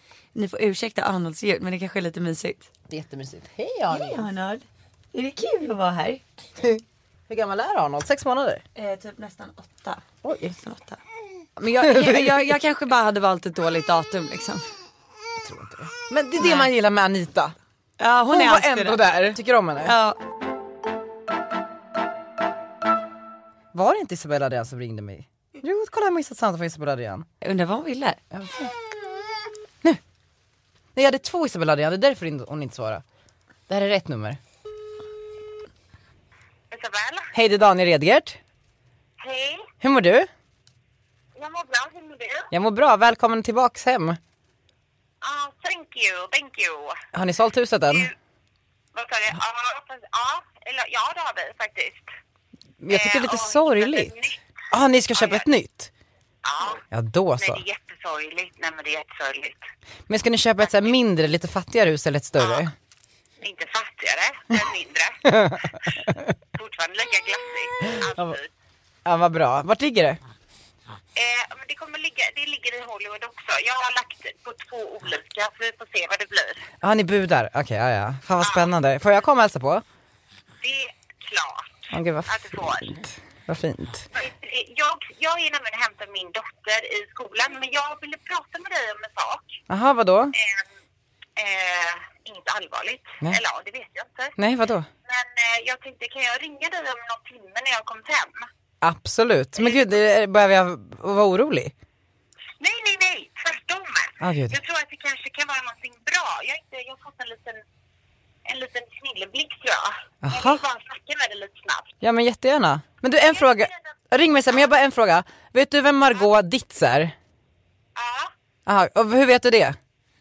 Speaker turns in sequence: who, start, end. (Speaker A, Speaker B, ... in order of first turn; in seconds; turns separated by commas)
Speaker A: 0.3-2.7, Speaker B: 2.9-4.2, Speaker A: 3.9-6.2, Speaker B: 6.6-8.6, Speaker A: 8.7-10.0, Speaker B: 10.2-10.6, Speaker A: 10.5-11.0, Speaker B: 11.6-12.6, Speaker A: 11.6-14.7, Speaker B: 15.4-17.5, Speaker A: 16.4-16.7, Speaker A: 18.0-19.0, Speaker B: 18.3-19.9, Speaker A: 19.8-20.2, Speaker B: 23.7-27.2, Speaker A: 27.4-28.2, Speaker B: 28.3-28.7, Speaker B: 30.9-33.0, Speaker B: 33.7-34.4, Speaker C: 36.7-37.3, Speaker B: 37.3-38.4, Speaker C: 39.2-39.7, Speaker B: 39.8-40.3, Speaker C: 41.4-42.5, Speaker B: 42.5-44.2, Speaker C: 45.2-47.0, Speaker B: 47.1-48.1, Speaker C: 48.9-52.1, Speaker B: 52.8-54.1, Speaker C: 52.9-54.3, Speaker B: 54.7-55.9, Speaker C: 55.1-55.4, Speaker C: 56.4-56.8, Speaker B: 56.9-57.6, Speaker C: 57.4-59.6, Speaker B: 60.1-62.7, Speaker C: 60.6-60.9, Speaker C: 62.4-62.7, Speaker C: 63.4-65.9, Speaker B: 65.2-66.2, Speaker C: 66.5-68.5, Speaker B: 68.0-68.4, Speaker B: 69.0-70.2, Speaker C: 71.2-76.7, Speaker B: 76.8-79.8, Speaker C: 80.6-82.9, Speaker B: 81.9-84.1, Speaker C: 84.1-89.6, Speaker B: 89.7-90.3, Speaker C: 90.3-90.6, Speaker C: 91.3-94.3, Speaker B: 94.4-94.9, Speaker C: 95.0-98.5, Speaker B: 98.8-101.7, Speaker C: 99.6-100.0, Speaker C: 102.6-107.6, Speaker B: 104.2-104.6, Speaker C: 108.5-111.9, Speaker B: 110.2-110.6, Speaker B: 112.0-117.1, Speaker C: 113.2-113.9, Speaker C: 117.9-118.3, Speaker B: 118.7-119.8